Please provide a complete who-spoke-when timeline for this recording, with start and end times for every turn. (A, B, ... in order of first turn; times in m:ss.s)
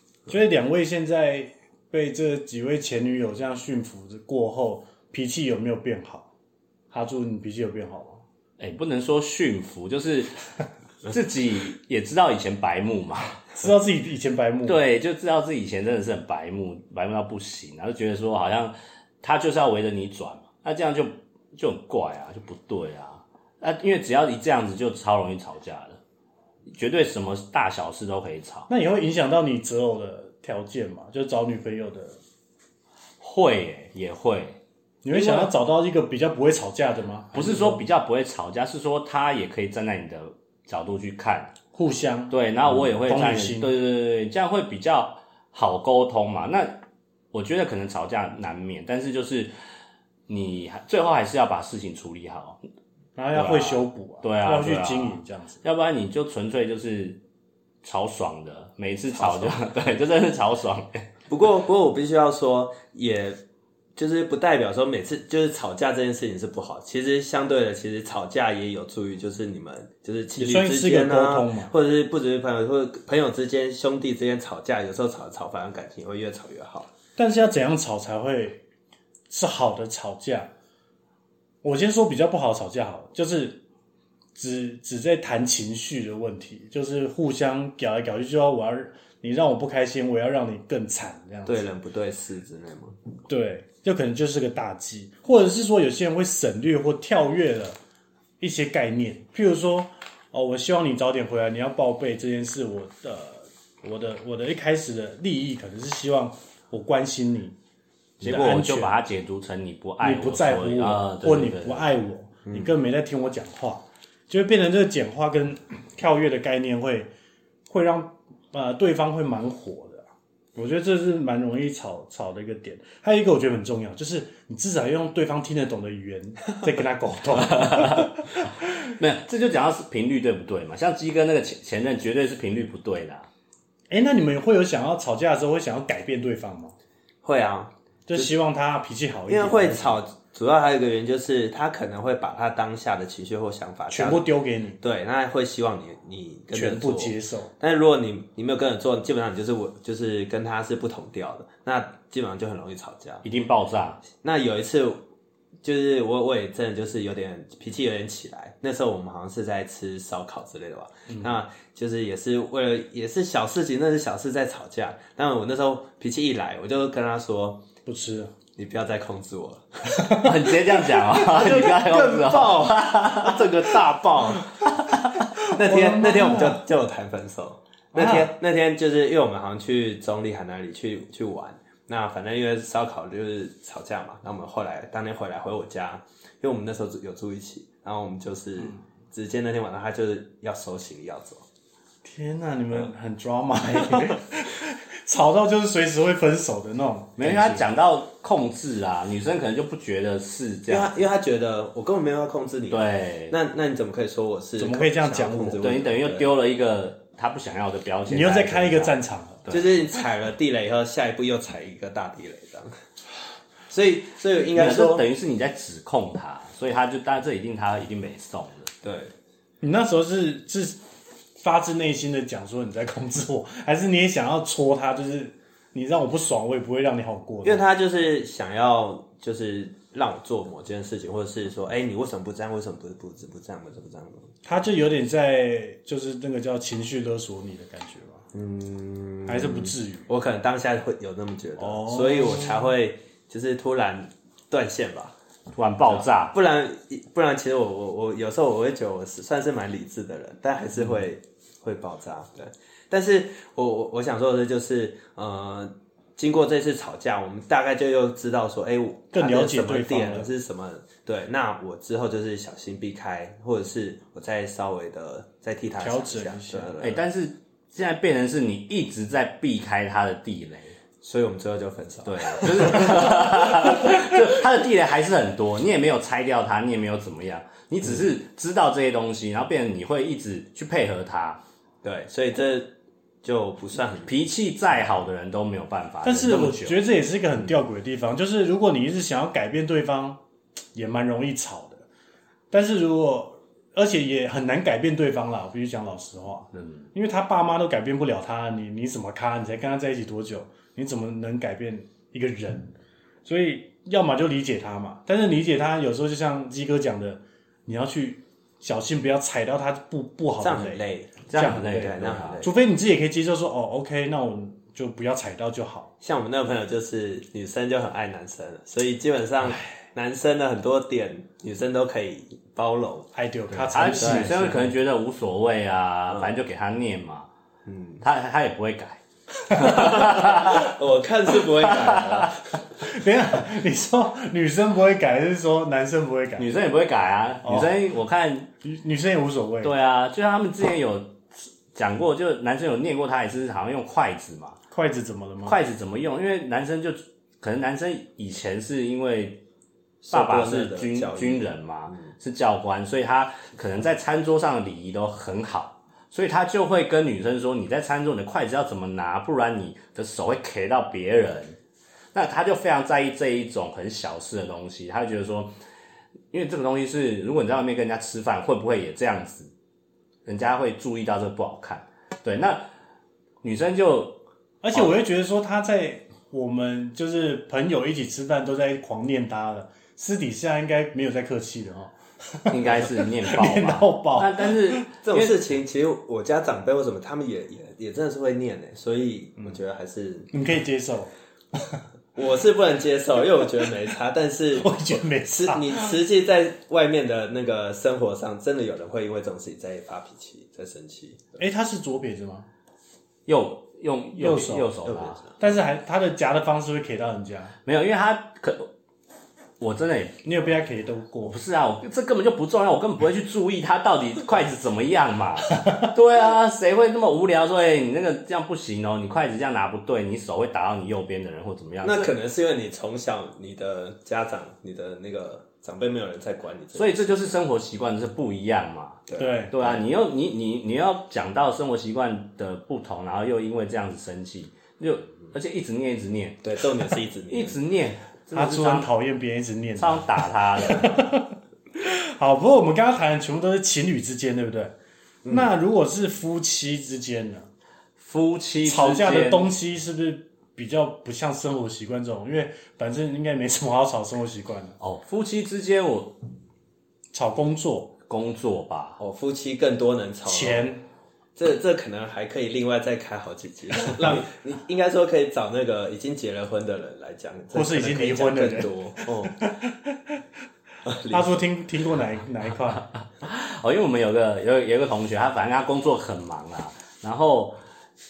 0:00.3-0:06.3 A
0:06.9-0:08.2 A
0:08.6-0:10.4 B
0:11.1-0:13.4 B
0:13.6-0:14.8 A
0:14.7-0:26.0 B
0:26.7-0:28.7 B
0:28.7-0:32.2 A
0:33.2-0:34.6 B
0:35.0-0:37.8 A
0:35.1-0:35.5 B
0:37.3-0:41.5 B
0:41.7-0:42.4 A
0:42.3-0:46.8 B
0:43.0-0:43.7 A
0:47.3-0:49.5 B
0:50.3-0:52.6 B
0:53.2-0:55.6 A
0:53.3-0:57.2 B
0:57.8-1:01.1 B
0:59.1-0:59.5 C
1:01.3-1:03.4 C
1:04.0-1:16.9 C
1:10.4-1:11.7 A
1:17.2-1:18.6 A
1:19.3-1:20.5 A
1:21.6-1:23.6 A
1:24.4-1:31.7 A
1:31.5-1:33.0 C
1:33.3-1:37.8 A
1:38.4-1:47.6 A
1:48.2-1:49.0 A
1:48.2-1:51.9 B
1:50.0-1:57.1 A
1:57.7-2:08.5 A
2:07.6-2:08.1 B
2:08.8-2:13.3 B
2:13.9-2:16.7 A
2:17.2-2:18.3 C
2:18.1-2:20.0 A
2:19.3-2:24.3 C
2:23.9-2:24.8 A
2:24.8-2:33.2 C
2:26.5-2:27.5 A
2:33.2-2:34.0 B
2:34.2-2:35.0 C
2:35.6-2:47.6 C
2:47.9-2:48.3 A
2:48.6-2:50.2 C
2:50.0-2:50.3 A
2:50.2-2:53.5 B
2:51.2-2:54.5 C
2:55.5-2:56.6 A
2:55.5-3:11.4 C
2:58.0-2:58.3 A
3:12.0-3:17.6 A
3:17.2-3:21.0 B
3:20.7-3:26.3 C
3:22.7-3:23.4 B
3:24.6-3:25.6 A
3:25.6-3:28.9 B
3:28.1-3:29.5 A
3:29.4-3:29.8 B
3:29.5-3:32.7 C
3:33.7-3:35.0 C
3:34.5-3:38.7 B
3:38.8-3:39.1 C
3:39.6-3:40.8 A
3:41.4-3:47.6 A
3:47.4-3:54.3 C
3:54.4-3:58.2 A
3:58.3-4:05.2 C
3:59.3-4:00.1 A
4:01.6-4:02.7 A
4:05.5-4:06.4 B
4:05.9-4:27.0 C
4:19.1-4:20.3 A
4:25.8-4:26.7 A
4:26.8-4:30.8 B
4:31.0-4:33.2 C
4:32.0-4:41.4 B
4:41.8-4:44.2 C
4:44.1-4:46.8 B
4:46.0-4:50.2 A
4:50.8-4:51.8 A
4:52.5-5:02.7 A
4:56.6-4:56.8 B
5:03.2-5:10.8 A
5:10.4-5:12.5 C
5:11.3-5:12.4 B
5:11.3-5:15.9 A
5:16.0-5:23.1 C
5:23.1-5:24.7 A
5:23.5-5:27.3 B
5:24.0-5:24.4 C
5:26.1-5:26.4 C
5:27.7-5:28.0 C
5:28.0-5:30.7 B
5:29.5-5:29.8 A
5:29.7-5:32.6 C
5:31.6-5:32.3 B
5:32.8-5:36.5 A
5:36.4-5:38.5 B
5:37.4-5:37.7 A
5:38.6-5:39.7 A
5:39.6-5:44.6 B
5:44.7-5:45.6 A
5:45.4-5:49.4 B
5:50.0-5:52.1 C
5:50.1-6:01.6 B
6:02.1-6:05.6 B
6:06.3-6:09.5 B
6:10.3-6:12.7 B
6:13.4-6:14.2 B
6:14.6-6:24.9 A
6:22.5-6:25.4 B
6:25.0-6:30.3 C
6:30.3-6:31.8 A
6:32.2-6:41.4 C
6:34.6-6:35.9 A
6:41.4-6:42.5 A
6:43.3-6:45.2 B
6:44.2-6:44.7 A
6:44.8-6:45.4 C
6:45.4-6:47.6 A
6:47.7-6:48.7 B
6:49.6-6:50.2 B
6:50.2-6:51.4 A
6:51.2-7:02.1 B
7:01.8-7:07.2 C
7:06.8-7:16.4 B
7:09.1-7:09.8 C
7:09.2-7:09.5 A
7:16.4-7:17.6 C
7:17.3-7:18.9 B
7:18.3-7:24.7 A
7:19.8-7:21.0 B
7:25.2-7:25.5 C
7:25.3-7:27.5 A
7:28.0-7:29.5 B
7:28.6-7:34.8 A
7:34.8-7:36.2 B
7:37.1-7:38.0 A
7:38.1-7:39.0 B
7:39.0-7:40.7 C
7:40.2-7:40.8 A
7:41.4-7:49.5 C
7:47.5-7:48.7 A
7:49.3-7:50.2 A
7:50.8-7:51.5 C
7:51.1-7:52.8 A
7:52.9-7:57.6 B